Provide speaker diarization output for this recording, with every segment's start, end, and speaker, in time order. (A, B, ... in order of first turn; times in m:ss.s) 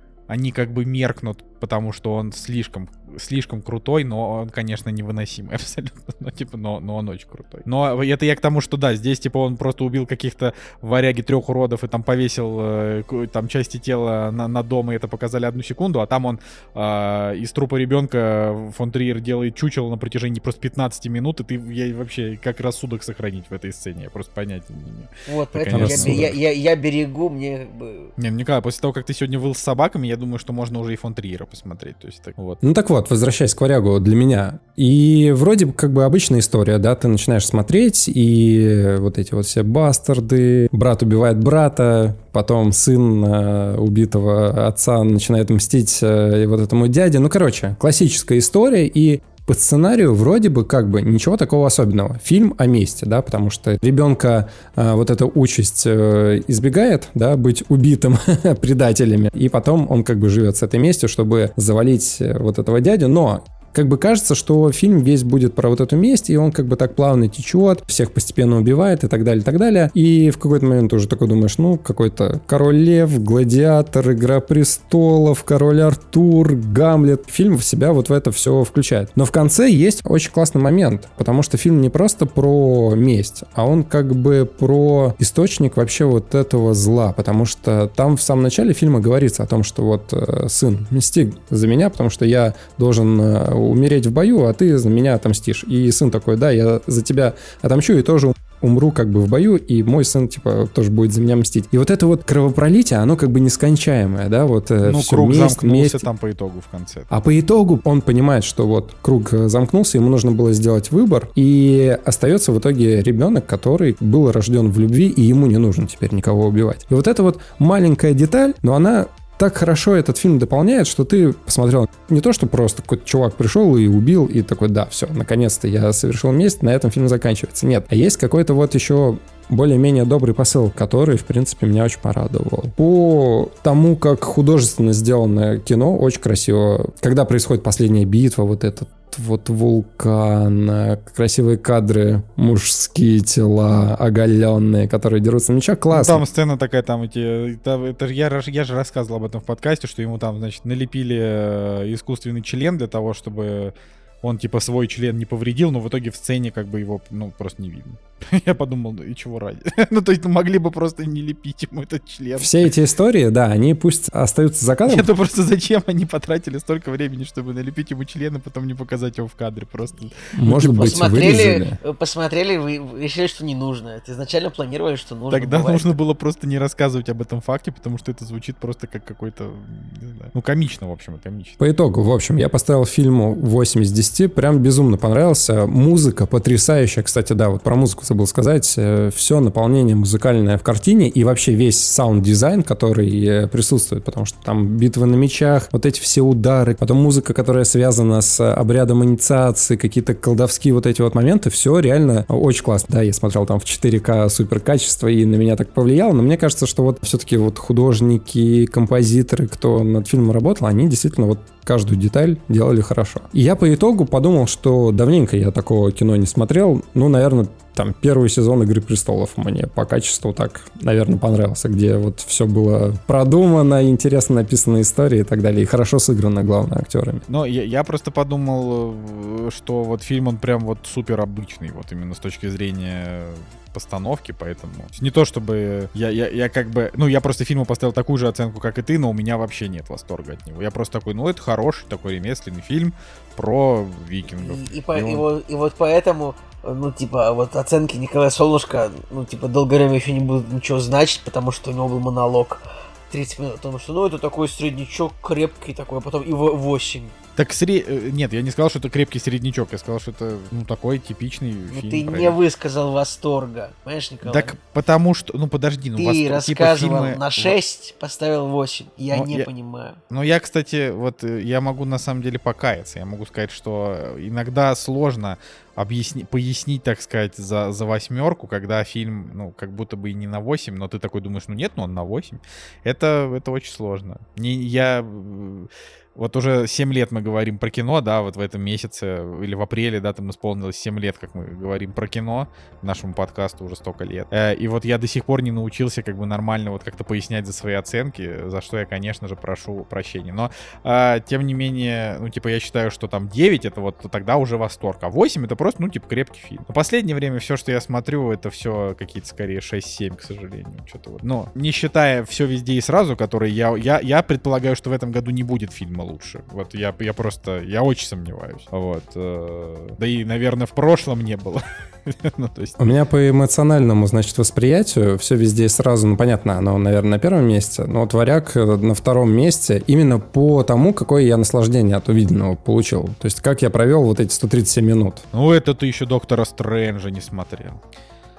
0:00.3-0:26.4 A
0:25.3-0:28.1 B
0:25.7-0:26.4 C
0:28.2-0:32.6 A
0:32.6-1:46.1 C
1:44.8-1:47.1 A
1:47.1-2:26.2 C
2:25.9-2:42.6 A
2:42.4-2:45.1 C
2:44.9-2:51.0 A
2:50.3-2:51.8 C
2:50.7-2:56.0 B
2:55.3-3:01.6 A
3:01.6-3:47.2 C
3:47.3-4:05.2 A
4:04.3-4:17.1 B
4:17.4-4:22.4 A
4:21.7-4:24.6 B
4:24.2-4:27.5 A
4:26.0-4:30.0 B
4:29.1-4:29.5 A
4:30.1-5:22.8 A
5:22.8-5:35.2 C
5:35.3-5:37.8 A